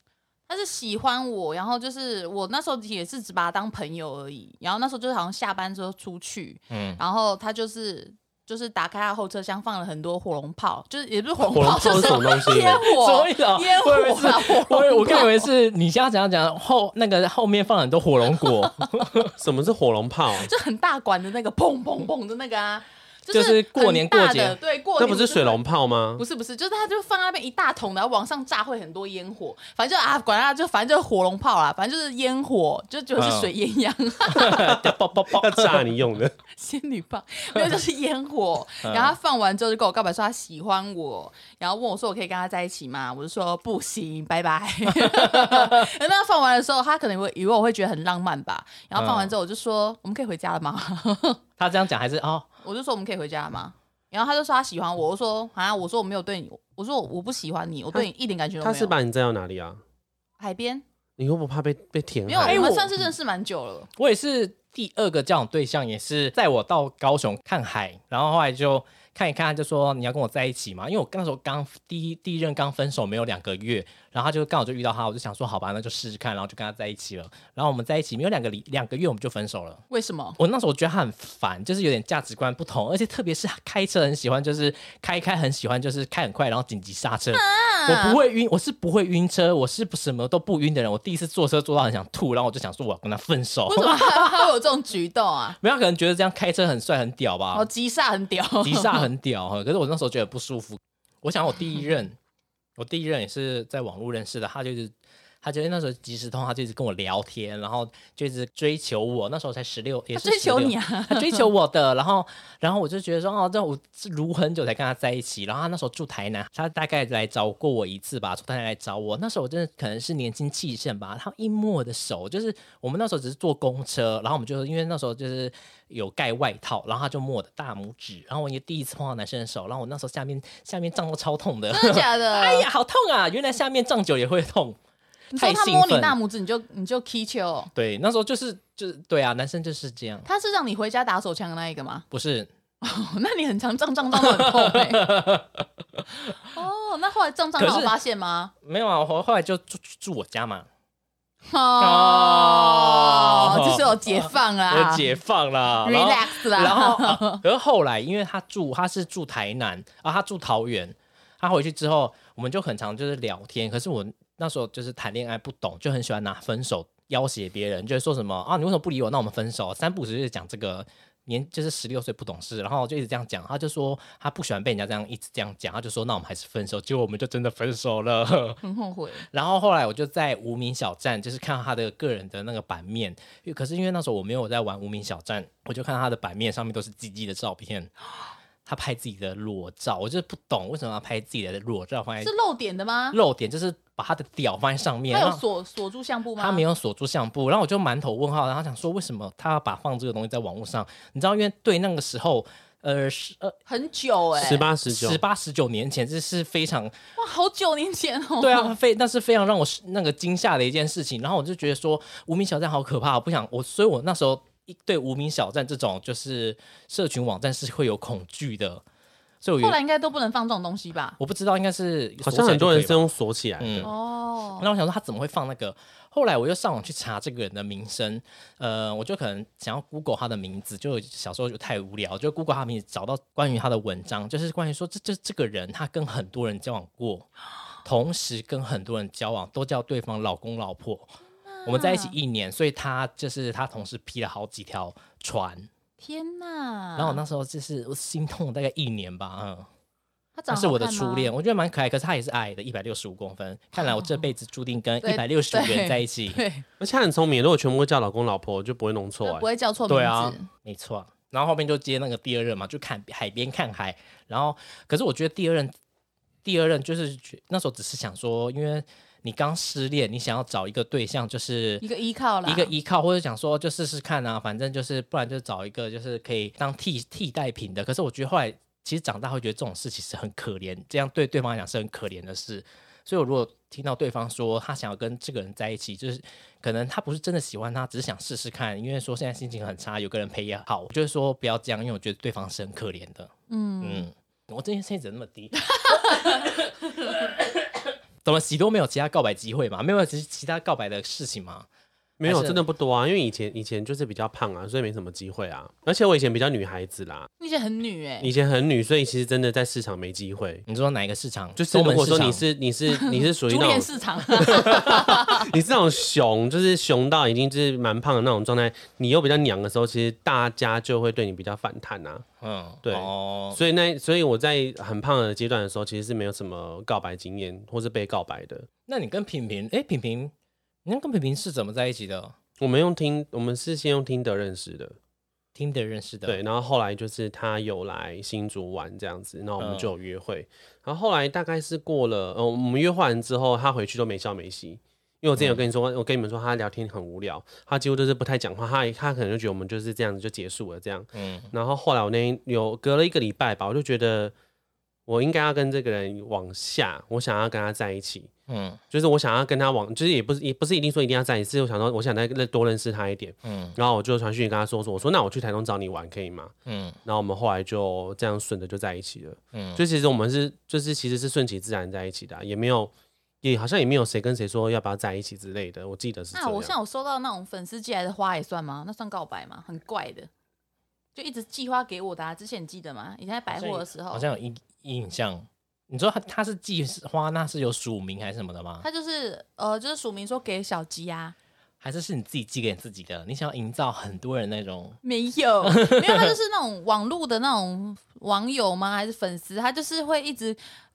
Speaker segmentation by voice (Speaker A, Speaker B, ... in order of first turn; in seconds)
Speaker A: 0.5-15.5, 20.3-25.6, 26.2-34.7, 36.5-51.4, 52.6-58.9, 60.4-60.8, 62.3-63.9, 79.9-80.4, 87.3-88.2, 93.7-95.6, 97.5-99.1, 110.2-111.5, 131.7-132.7, 135.3-137.7, 140.2-142.1, 142.8-145.1, 146.5-148.5, 151.5-155.1, 155.8-157.4, 178.6-179.2, 192.2-193.2, 195.1-196.6, 203.7-204.7, 207.2-208.8, 219.6-221.2, 223.8-224.7, 241.5-242.1, 246.0-247.2, 250.3-251.3, 253.8-254.2, 255.0-256.6, 259.2-260.5, 271.8-272.7, 293.5-294.1, 295.7-296.4, 307.4-308.3, 312.9-315.5, 376.3-380.3, 381.1-384.2, 388.8-391.3, 395.0-400.6
Speaker B: 6.7-7.0, 12.3-19.3, 23.3-24.6, 33.2-33.5, 34.3-35.8, 38.8-39.1, 45.0-45.8, 48.9-49.3, 51.6-52.5, 62.4-63.0, 64.0-79.8, 80.4-94.5, 95.6-97.7, 98.6-102.2, 102.8-134.8, 135.3-136.2, 137.7-140.3, 142.1-142.5, 144.1-146.3, 147.6-147.9, 148.6-150.7, 151.8-178.6, 179.3-187.9, 188.6-192.3, 193.1-195.4, 196.4-203.6, 204.8-206.9, 208.4-218.8, 219.4-219.8, 221.2-223.9, 224.6-237.3, 237.8-241.1, 241.7-245.7, 247.0-249.7, 250.5-256.4, 259.9-265.7, 266.4-271.8, 272.4-296.5, 297.1-297.5, 298.2-301.7, 302.2-302.6, 310.7-312.4, 322.4-323.6, 328.9-330.3, 330.8-332.3, 335.6-336.4, 339.6-339.9, 351.1-351.5, 358.5-358.8, 363.4-363.8, 366.6-367.0, 369.5-369.8, 383.5-388.8, 391.8-395.0, 395.6-396.3
Speaker C: 11.4-12.8, 19.4-20.5, 25.0-26.2, 34.6-36.4, 58.6-59.8, 61.2-62.7, 204.3-205.2, 222.2-223.9, 256.8-259.5, 302.2-307.3, 308.2-310.6, 311.6-322.2, 322.8-328.7, 332.6-335.0, 336.2-354.3, 355.1-358.3, 358.9-366.5, 367.1-376.7